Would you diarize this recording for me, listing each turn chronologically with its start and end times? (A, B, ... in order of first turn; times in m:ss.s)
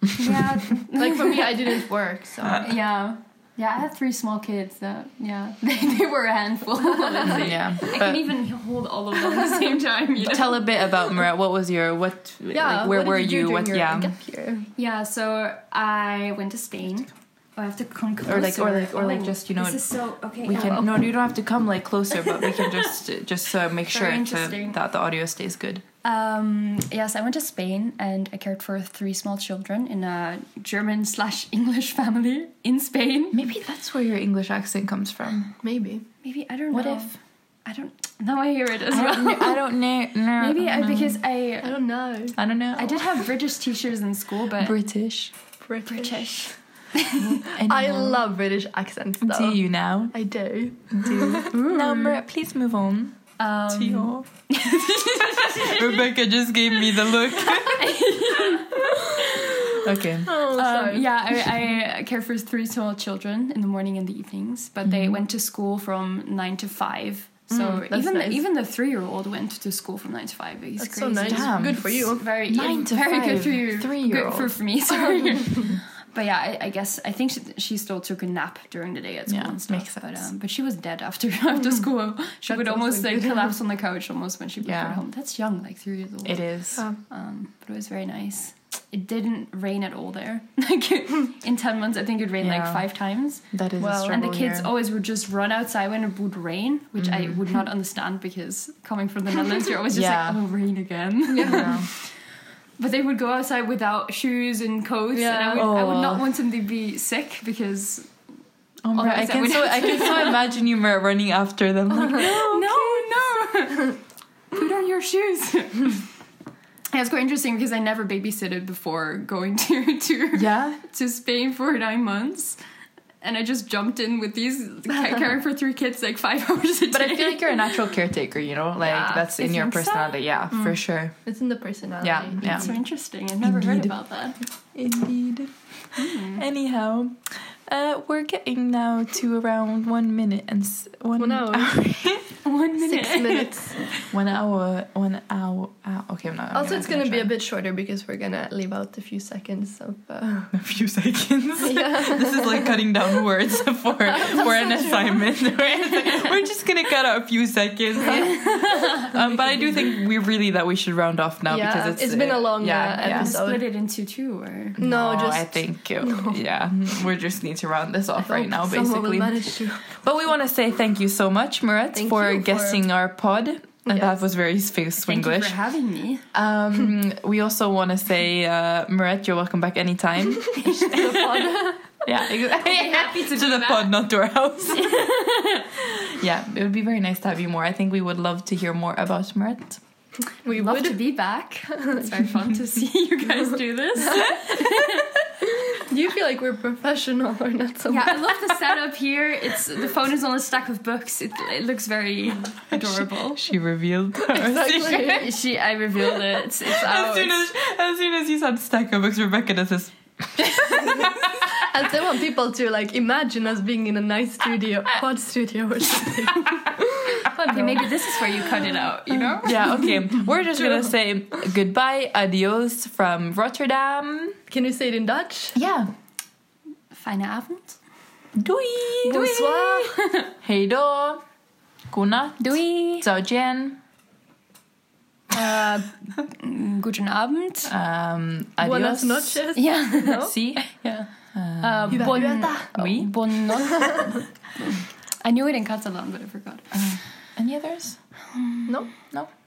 0:00.2-0:01.8 A
0:00.9-0:02.7 B
0:02.6-0:10.7 A
0:07.2-0:08.3 C
0:10.2-0:14.1 C
0:12.5-0:14.7 B
0:14.8-0:20.9 A
0:18.3-0:19.8 C
0:20.4-0:25.8 C
0:23.9-0:24.8 A
0:26.0-0:33.4 A
0:33.3-0:35.5 C
0:35.6-0:36.0 B
0:36.2-0:39.8 A
0:36.7-0:37.1 C
0:38.9-0:41.2 C
0:40.3-0:41.8 A
0:41.6-0:42.4 B
0:42.4-0:43.2 C
0:42.8-0:44.8 A
0:44.6-0:45.3 C
0:45.6-0:46.4 B
0:45.9-0:47.4 A
0:47.3-0:49.6 B
0:47.4-0:48.2 C
0:49.2-0:50.1 C
0:50.1-0:51.5 B
0:50.9-0:54.3 C
0:51.5-0:52.2 A
0:53.4-0:56.1 A
0:55.4-0:58.1 C
0:57.1-1:26.5 A
0:59.8-1:00.3 C
1:00.2-1:01.2 B
1:04.8-1:05.2 C
1:07.5-1:08.4 B
1:10.8-1:12.2 B
1:11.3-1:14.6 C
1:15.0-1:15.7 B
1:19.3-1:20.3 C
1:22.5-1:23.6 B
1:24.6-1:25.0 C
1:26.2-1:26.8 C
1:27.0-1:42.0 A
1:32.4-1:32.8 C
1:33.5-1:34.7 C
1:33.8-1:34.2 B
1:37.0-1:37.4 C
1:39.9-1:40.4 C
1:41.3-1:41.8 B
1:41.4-1:41.9 C
1:42.8-1:48.1 A
1:45.1-1:45.7 B
1:45.6-1:46.2 C
1:48.8-1:53.0 C
1:49.0-1:50.4 A
1:52.1-1:54.0 A
1:54.5-1:56.0 A
1:56.9-2:02.6 A
2:00.3-2:00.8 C
2:03.2-2:07.9 A
2:06.9-2:11.2 C
2:08.8-2:10.7 A
2:11.2-2:12.8 B
2:12.0-2:12.7 C
2:12.4-2:14.4 A
2:13.4-2:14.0 C
2:14.8-2:22.4 C
2:16.0-2:16.4 A
2:21.2-2:21.8 B
2:22.4-2:24.1 A
2:22.8-2:23.8 B
2:24.1-2:27.3 C
2:26.5-2:30.5 B
2:30.5-2:43.3 C
2:31.6-2:32.7 B
2:34.1-2:35.3 B
2:38.0-2:39.0 B
2:38.1-2:39.1 A
2:41.5-2:43.6 B
2:43.0-2:44.8 A
2:44.8-2:46.4 B
2:44.8-2:49.4 C
2:48.2-2:49.9 B
2:49.9-2:55.6 C
2:52.0-2:52.8 B
2:53.9-2:54.2 B
2:55.0-2:56.2 A
2:56.3-3:05.1 C
3:00.6-3:01.5 A
3:00.8-3:01.8 B
3:02.5-3:03.9 A
3:04.7-3:05.8 A
3:05.8-3:09.8 C
3:10.5-3:11.0 B
3:10.5-3:15.1 A
3:14.0-3:15.1 B
3:15.7-3:18.3 B
3:17.9-3:23.4 A
3:22.7-3:25.3 C
3:24.3-3:25.3 B
3:24.9-3:27.4 A
3:26.6-3:31.7 C
3:31.5-3:37.8 B
3:37.2-3:39.8 A
3:39.1-3:44.4 C
3:44.5-3:45.6 B
3:45.6-3:45.9 C
3:46.9-3:47.8 A
3:48.4-3:49.4 C
3:49.1-3:50.3 A
3:49.1-3:50.0 B
3:50.4-3:51.2 C
3:51.9-3:53.8 C
3:52.4-3:53.1 A
3:55.4-3:57.7 A
3:55.5-3:55.8 B
3:57.7-3:59.5 C
3:58.6-4:00.3 B
3:59.6-4:06.8 A
4:00.1-4:00.6 C
4:01.3-4:03.2 C
4:01.9-4:02.7 B
4:06.7-4:08.0 C
4:08.4-4:08.6 A